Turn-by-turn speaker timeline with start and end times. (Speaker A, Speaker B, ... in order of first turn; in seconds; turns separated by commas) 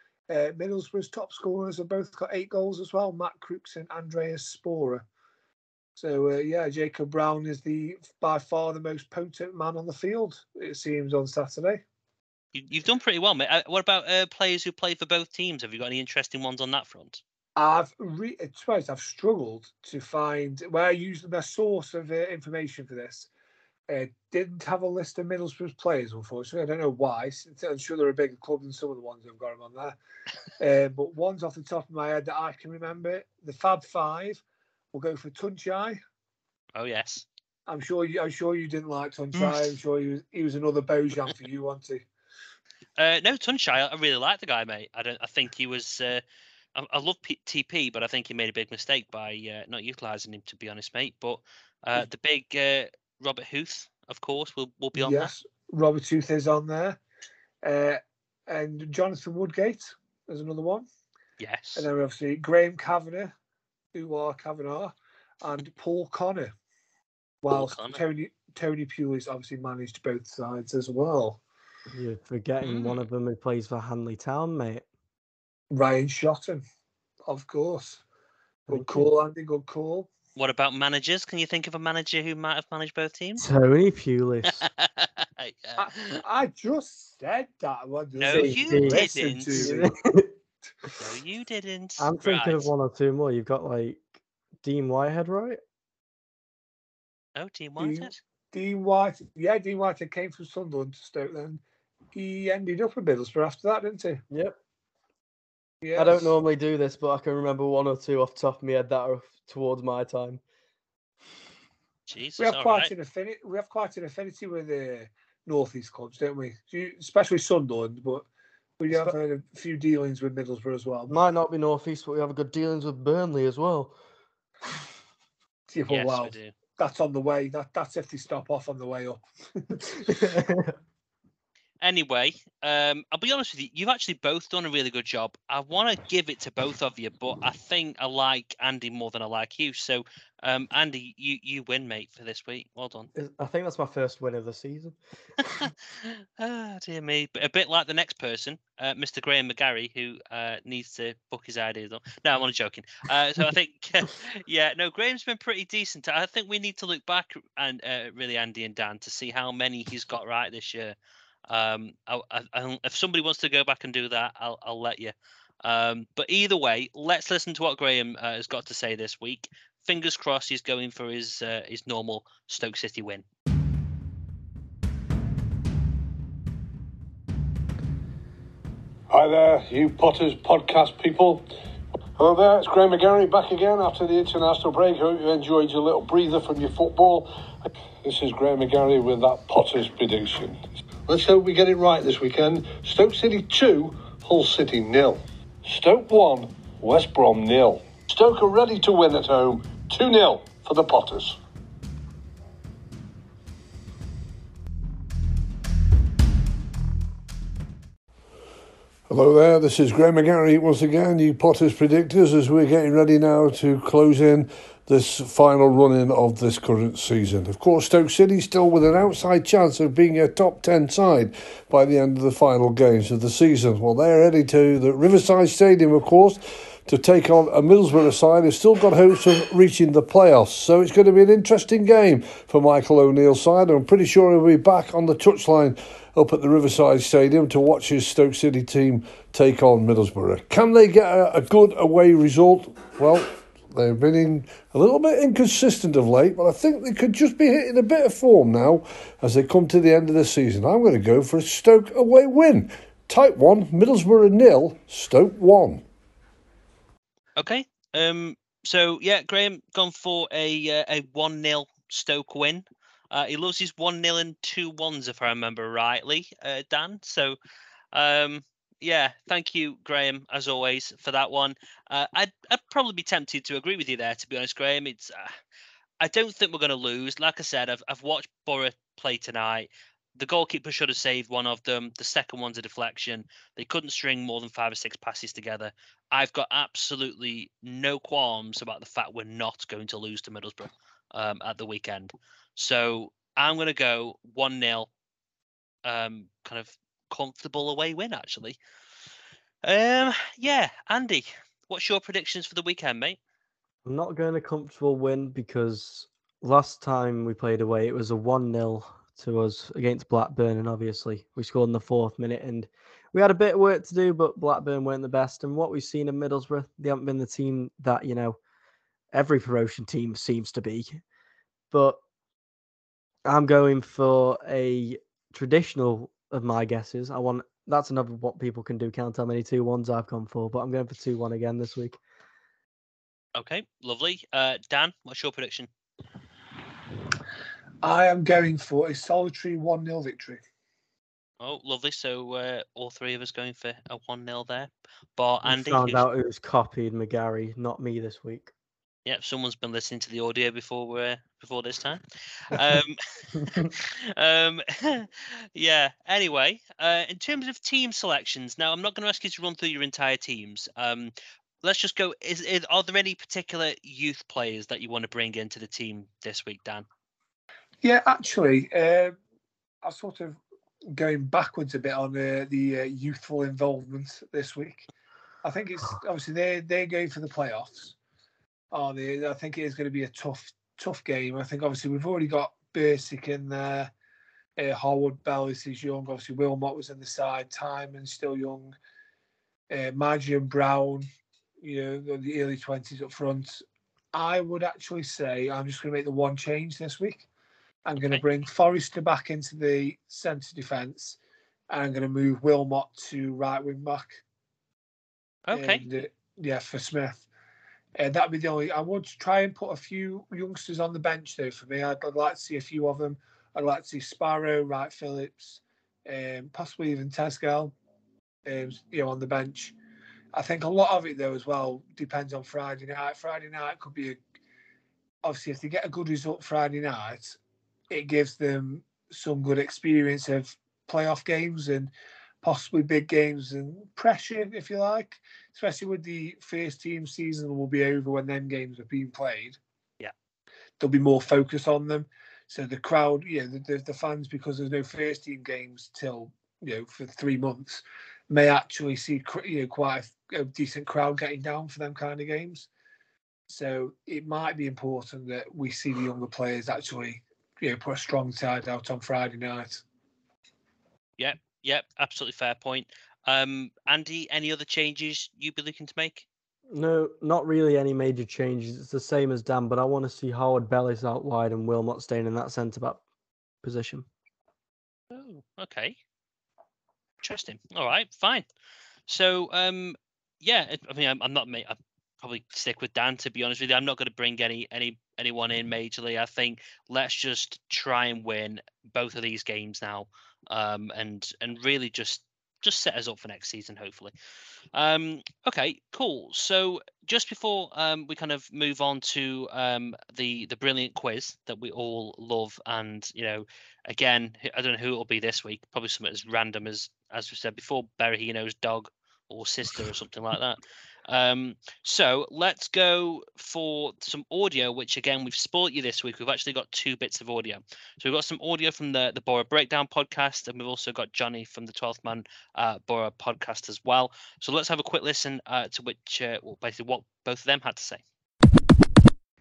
Speaker A: 0.3-5.0, Speaker A: 6.0-11.8, Speaker B: 12.5-17.2, Speaker A: 17.6-23.3, Speaker A: 23.9-30.0, Speaker A: 30.6-34.4, Speaker A: 34.9-36.0, Speaker B: 36.8-37.2, Speaker A: 37.7-42.0, Speaker B: 39.3-39.7, Speaker B: 43.0-46.2, Speaker B: 46.7-55.3, Speaker A: 55.0-57.0, Speaker A: 57.6-60.9, Speaker B: 61.4-61.9, Speaker A: 61.8-63.3, Speaker A: 63.9-66.5, Speaker A: 67.4-71.4, Speaker B: 67.5-68.0, Speaker C: 71.9-74.8, Speaker B: 72.6-73.0, Speaker A: 75.7-76.6, Speaker A: 77.3-78.0, Speaker A: 78.7-80.1, Speaker C: 78.7-79.0, Speaker B: 80.3-83.5, Speaker C: 83.4-84.7, Speaker B: 84.6-86.2, Speaker A: 85.8-89.9, Speaker B: 88.2-89.7, Speaker C: 88.3-90.3, Speaker B: 91.0-92.7, Speaker C: 92.0-94.1, Speaker C: 94.6-95.6, Speaker B: 97.3-98.2, Speaker A: 97.8-101.6, Speaker A: 102.1-104.2, Speaker C: 104.3-104.6, Speaker A: 105.8-106.3, Speaker C: 105.9-110.4, Speaker B: 112.1-112.9, Speaker A: 112.4-118.2, Speaker A: 118.8-121.1, Speaker C: 121.1-123.9, Speaker A: 125.7-130.3, Speaker B: 125.9-126.5, Speaker C: 130.1-130.7, Speaker B: 131.8-143.1, Speaker C: 143.2-145.0, Speaker B: 145.5-160.9, Speaker B: 161.5-173.2, Speaker D: 179.1-181.5, Speaker D: 182.2-187.3, Speaker D: 188.0-201.4, Speaker D: 209.1-255.8, Speaker B: 257.4-267.4, Speaker B: 267.9-275.4, Speaker B: 276.0-294.9, Speaker B: 295.8-298.6, Speaker B: 299.6-303.2, Speaker C: 303.8-318.4, Speaker C: 319.1-321.0, Speaker C: 321.7-322.0, Speaker C: 323.2-332.0, Speaker B: 333.3-335.7, Speaker A: 337.8-340.4, Speaker B: 341.4-346.1, Speaker C: 345.4-348.5, Speaker B: 349.1-366.9, Speaker A: 367.8-369.1, Speaker A: 369.8-374.9, Speaker A: 375.4-377.9, Speaker A: 378.7-383.9, Speaker A: 384.6-388.7, Speaker A: 389.7-391.1, Speaker A: 391.6-397.3, Speaker A: 397.8-401.2, Speaker B: 398.0-398.2, Speaker A: 401.7-404.2, Speaker B: 405.5-405.8, Speaker A: 405.5-407.2, Speaker A: 407.9-417.7, Speaker A: 418.4-419.7, Speaker A: 420.3-424.2, Speaker A: 425.2-427.4, Speaker A: 427.9-431.9, Speaker A: 432.4-439.6, Speaker A: 440.8-452.7, Speaker A: 453.5-459.8, Speaker B: 461.2-466.2, Speaker C: 466.7-473.0, Speaker C: 473.6-474.1, Speaker B: 475.1-475.9, Speaker B: 477.2-478.4, Speaker B: 479.1-494.1, Speaker B: 494.7-528.0